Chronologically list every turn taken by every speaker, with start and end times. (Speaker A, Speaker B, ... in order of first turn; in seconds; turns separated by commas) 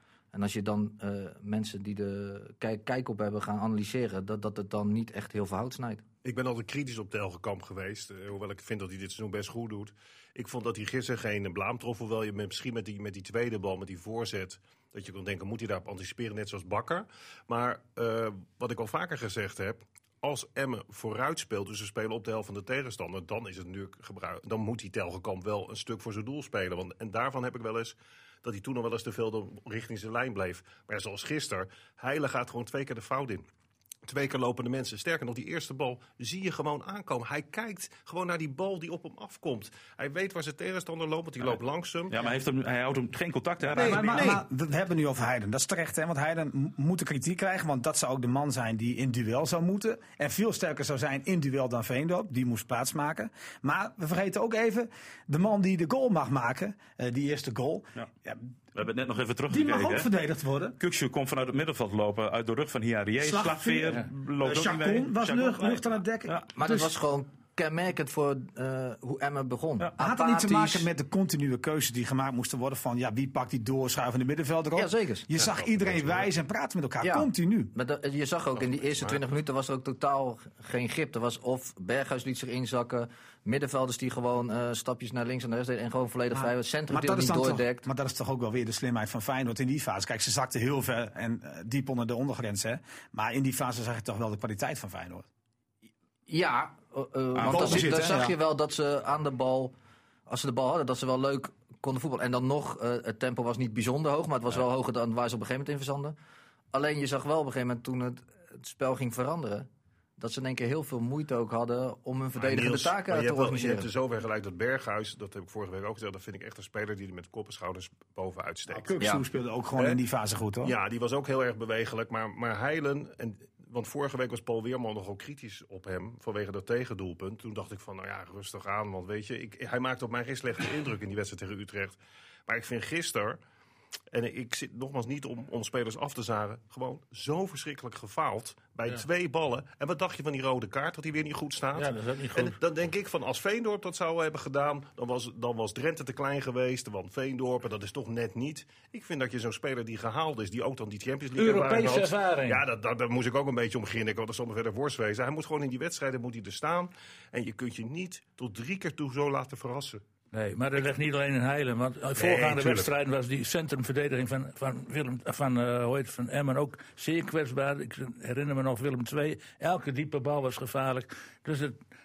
Speaker A: 0.3-6.0, Speaker B: 6.2-33.5, Speaker B: 34.1-42.2, Speaker C: 42.1-44.4, Speaker D: 43.7-58.5, Speaker B: 43.7-44.4, Speaker C: 58.8-60.1, Speaker D: 59.5-60.8, Speaker C: 60.8-66.5, Speaker D: 63.2-66.9, Speaker A: 66.6-70.9, Speaker D: 70.0-77.7, Speaker A: 74.8-75.3, Speaker B: 75.4-76.3, Speaker A: 77.0-87.9, Speaker B: 78.6-79.2, Speaker D: 86.3-95.3, Speaker A: 96.3-99.7, Speaker C: 97.4-97.9, Speaker D: 97.4-98.3, Speaker A: 100.3-106.2, Speaker A: 106.7-113.9, Speaker B: 112.4-118.9, Speaker D: 118.7-120.8, Speaker B: 120.6-133.4, Speaker B: 134.1-160.0, Speaker E: 141.8-142.6, Speaker E: 151.3-152.7, Speaker E: 160.3-171.8, Speaker B: 162.2-162.9